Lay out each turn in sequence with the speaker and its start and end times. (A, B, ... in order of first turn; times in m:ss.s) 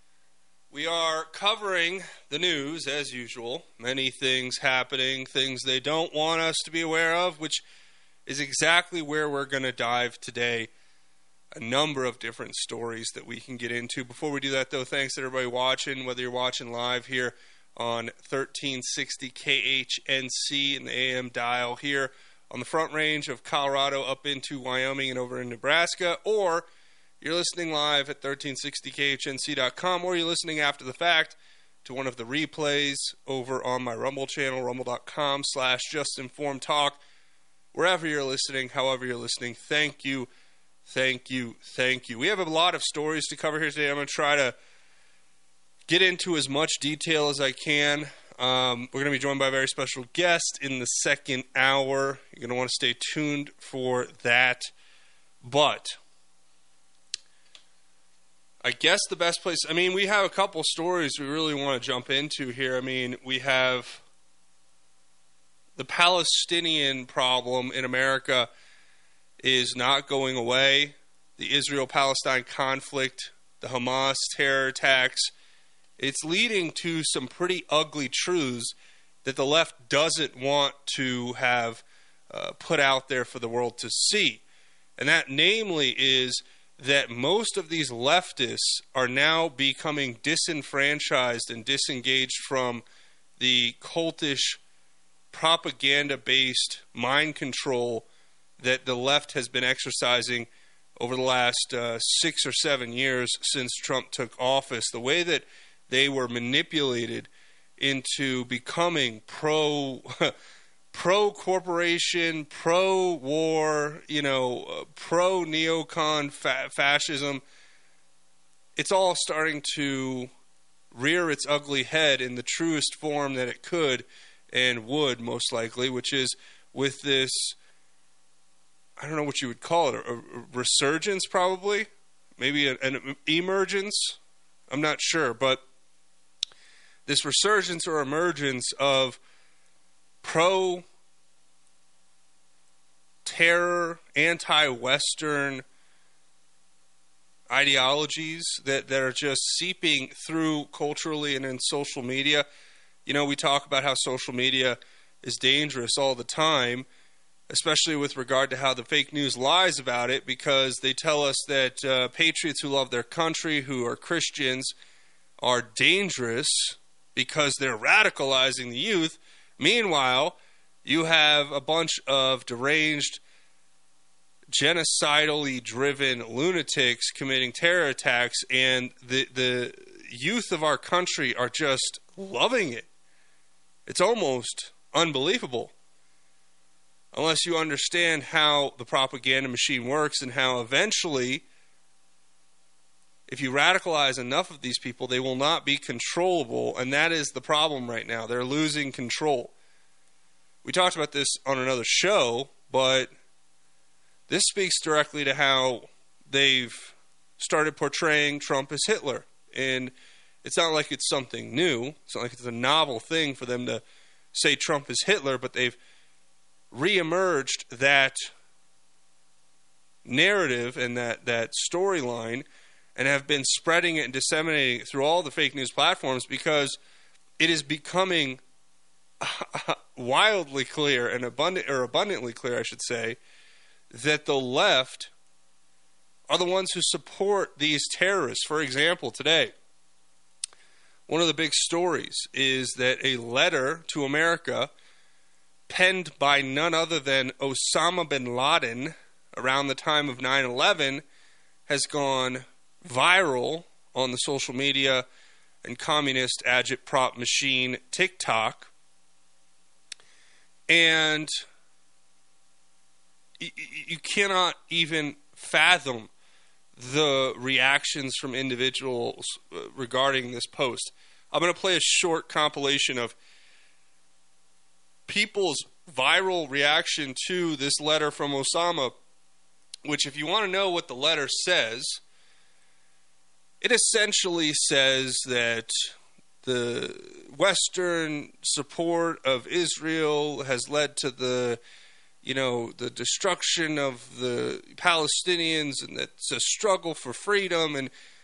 0:00.7-0:07.6 A
0:08.2-0:10.7 A
0:11.5-0:26.6 A
0:27.2-0:37.0 A
0:37.7-0:40.3 A
0:40.9-0:44.5 A
0:45.9-0:54.7 A
0:55.4-0:56.0 A
0:58.6-1:04.0 A
1:05.8-1:08.5 A
1:09.4-1:15.3 A
1:16.0-1:24.4 A
1:25.0-1:32.8 A
1:33.4-1:34.6 A
1:35.3-1:38.0 A
1:38.6-1:50.3 A
1:50.9-1:57.4 A
1:58.8-2:00.3 A
2:00.9-2:07.6 A
2:09.0-2:14.2 A
2:14.7-2:15.6 A
2:17.0-2:19.2 A
2:20.2-2:20.8 A
2:23.2-2:25.6 A
2:27.5-2:32.4 A
2:33.0-2:36.8 A
2:37.5-2:44.7 A
2:45.4-2:53.2 A
2:54.5-3:02.8 A
3:03.9-3:05.7 A
3:07.1-3:11.4 A
3:13.3-3:19.5 A
3:20.6-3:23.1 A
3:24.3-3:33.8 A
3:34.3-3:35.8 A
3:36.7-3:38.3 A
3:40.0-3:42.4 A
3:43.0-3:46.8 A
3:47.4-3:48.4 A
3:49.2-3:53.2 A
3:53.9-3:55.1 A
3:56.3-3:59.5 A
4:01.1-4:04.7 A
4:05.7-4:11.0 A
4:11.7-4:15.0 A
4:15.6-4:18.7 A
4:20.7-4:21.3 A
4:23.4-4:26.1 A
4:26.8-4:33.1 A
4:35.1-4:38.9 A
4:39.8-4:42.0 A
4:43.6-4:51.6 A
4:52.2-4:57.9 A